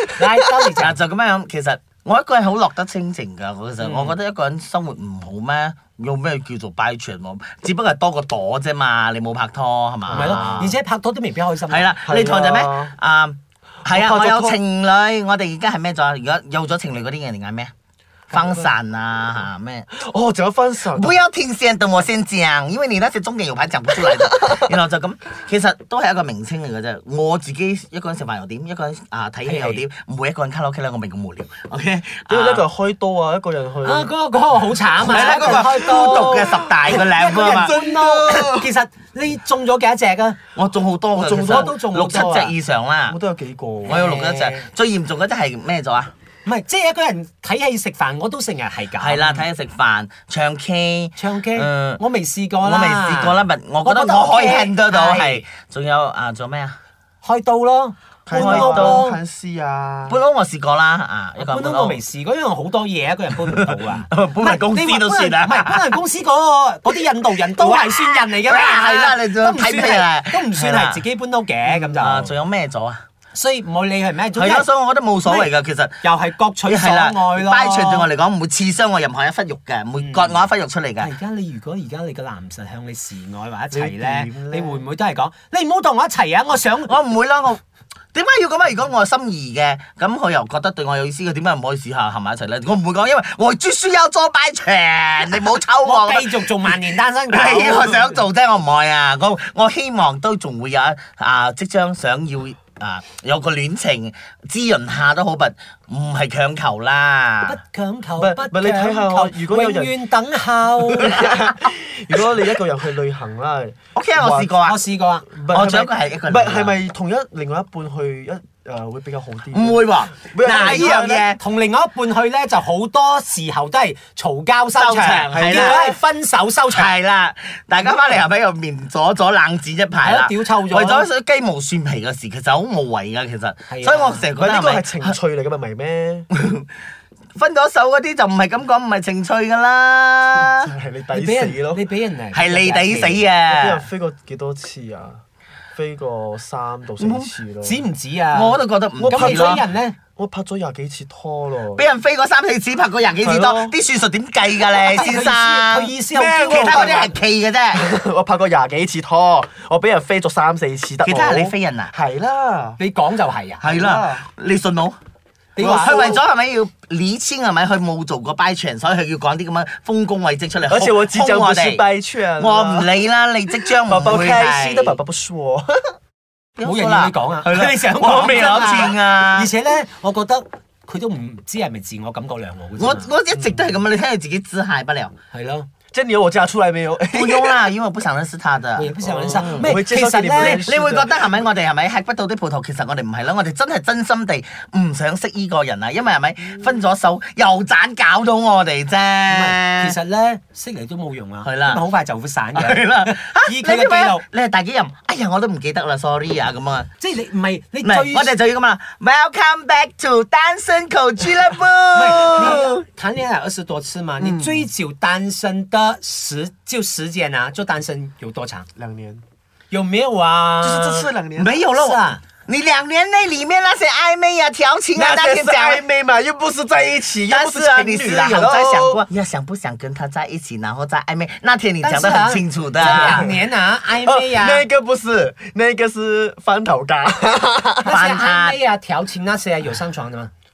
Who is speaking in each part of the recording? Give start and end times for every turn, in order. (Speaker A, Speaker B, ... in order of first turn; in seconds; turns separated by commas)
Speaker A: 0.1-1.0, Speaker B: 0.8-10.8, Speaker A: 3.8-4.2, Speaker A: 10.1-12.0, Speaker B: 11.7-17.7, Speaker C: 12.1-12.9, Speaker C: 13.8-14.6, Speaker B: 18.3-19.9, Speaker C: 18.3-18.7, Speaker C: 19.9-21.1, Speaker B: 20.9-32.6, Speaker C: 24.1-24.6, Speaker A: 29.4-29.8, Speaker C: 32.3-34.1, Speaker A: 33.8-40.4, Speaker C: 35.0-38.7, Speaker B: 35.0-37.8, Speaker B: 40.5-43.2, Speaker C: 41.1-42.5, Speaker A: 41.5-42.5, Speaker C: 43.1-44.0, Speaker B: 43.8-46.1, Speaker A: 43.9-44.7, Speaker A: 46.4-49.4, Speaker B: 49.0-52.0, Speaker A: 51.1-55.4, Speaker B: 52.6-56.8, Speaker A: 57.2-59.2, Speaker C: 58.2-60.2, Speaker B: 58.3-59.0, Speaker B: 60.1-62.0, Speaker A: 61.4-72.3, Speaker B: 63.5-66.0, Speaker B: 67.5-71.0, Speaker B: 72.0-73.0, Speaker A: 73.3-74.7, Speaker B: 74.3-76.0, Speaker A: 75.2-75.5, Speaker A: 76.0-78.1, Speaker B: 76.7-81.1, Speaker A: 80.0-80.4, Speaker A: 81.0-86.9, Speaker C: 83.7-84.8, Speaker B: 86.9-87.6, Speaker B: 88.1-96.8, Speaker A: 95.8-98.2, Speaker B: 97.3-107.6, Speaker A: 107.4-111.3, Speaker C: 108.2-109.9, Speaker C: 110.9-114.6, Speaker B: 113.9-114.8, Speaker A: 114.6-115.2, Speaker C: 115.3-121.2, Speaker B: 115.5-116.8, Speaker B: 119.5-121.4, Speaker A: 120.5-126.9, Speaker B: 124.7-125.9, Speaker C: 125.3-126.0, Speaker B: 126.7-135.2, Speaker A: 130.0-131.1, Speaker A: 133.7-134.3, Speaker C: 134.3-136.3, Speaker B: 136.3-136.7, Speaker B: 137.3-140.7, Speaker C: 140.4-141.8, Speaker A: 141.1-143.2, Speaker B: 142.3-143.8, Speaker C: 143.5-145.2, Speaker C: 145.7-147.9, Speaker B: 147.0-147.3, Speaker A: 147.6-150.0, Speaker B: 148.3-149.6, Speaker C: 149.0-149.6, Speaker C: 150.2-151.8, Speaker B: 151.7-155.9, Speaker C: 153.2-153.8, Speaker A: 154.9-157.0, Speaker C: 156.1-157.2, Speaker B: 156.5-157.9, Speaker C: 157.7-162.8, Speaker B: 161.0-161.9, Speaker A: 162.8-163.6, Speaker B: 163.6-164.9, Speaker C: 163.6-164.2, Speaker A: 165.6-166.2, Speaker C: 165.6-166.2, Speaker B: 165.6-175.0, Speaker C: 170.7-172.9, Speaker C: 173.8-175.9, Speaker B: 176.6-179.5, Speaker A: 176.6-183.1, Speaker B: 182.8-185.1, Speaker C: 183.3-183.8, Speaker A: 185.3-185.7, Speaker C: 185.9-187.6, Speaker B: 187.1-189.7, Speaker A: 188.8-190.6, Speaker C: 189.0-191.2, Speaker B: 190.4-199.9, Speaker A: 199.3-204.2, Speaker B: 201.4-201.8, Speaker B: 202.5-206.9, Speaker A: 207.0-208.3, Speaker B: 207.8-212.8, Speaker A: 211.9-218.7, Speaker C: 214.2-214.7, Speaker C: 218.8-219.2, Speaker A: 219.7-221.1, Speaker C: 220.6-221.5, Speaker B: 221.4-225.8, Speaker A: 221.7-222.2, Speaker C: 224.9-229.0, Speaker B: 227.3-233.2, Speaker A: 231.8-234.6, Speaker C: 232.8-237.9, Speaker A: 237.8-240.3, Speaker B: 237.9-238.6